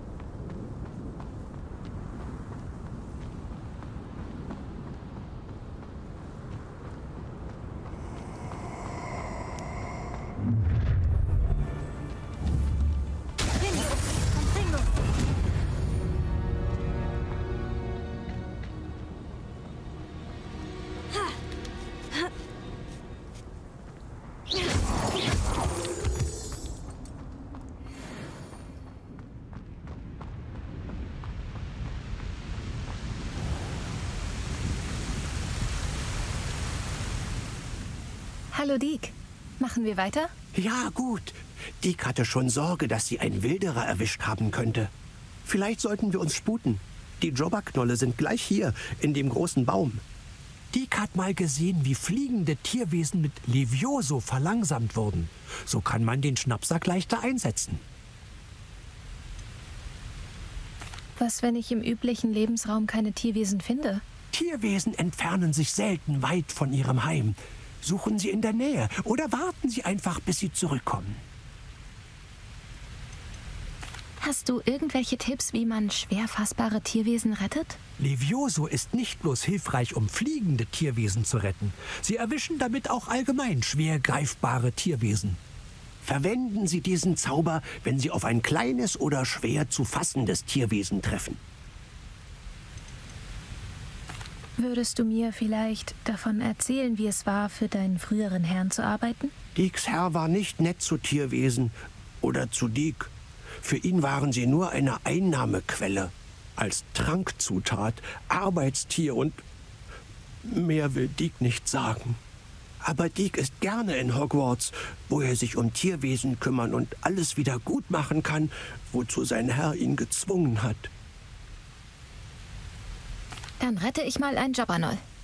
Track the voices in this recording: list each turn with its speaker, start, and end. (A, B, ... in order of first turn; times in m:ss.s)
0:13.6-0:14.9 A
0:38.5-0:40.3 A
0:40.5-0:44.9 B
0:45.4-0:50.0 B
0:50.7-0:57.8 B
1:01.2-1:04.0 A
1:04.3-1:11.2 B
1:14.2-1:17.8 A
1:18.0-1:25.4 B
1:26.0-1:31.4 B
1:34.6-1:39.3 A
1:39.5-1:43.1 B
1:43.6-1:49.4 B
1:50.4-1:52.2 B
1:52.8-2:00.9 B
2:03.6-2:05.0 A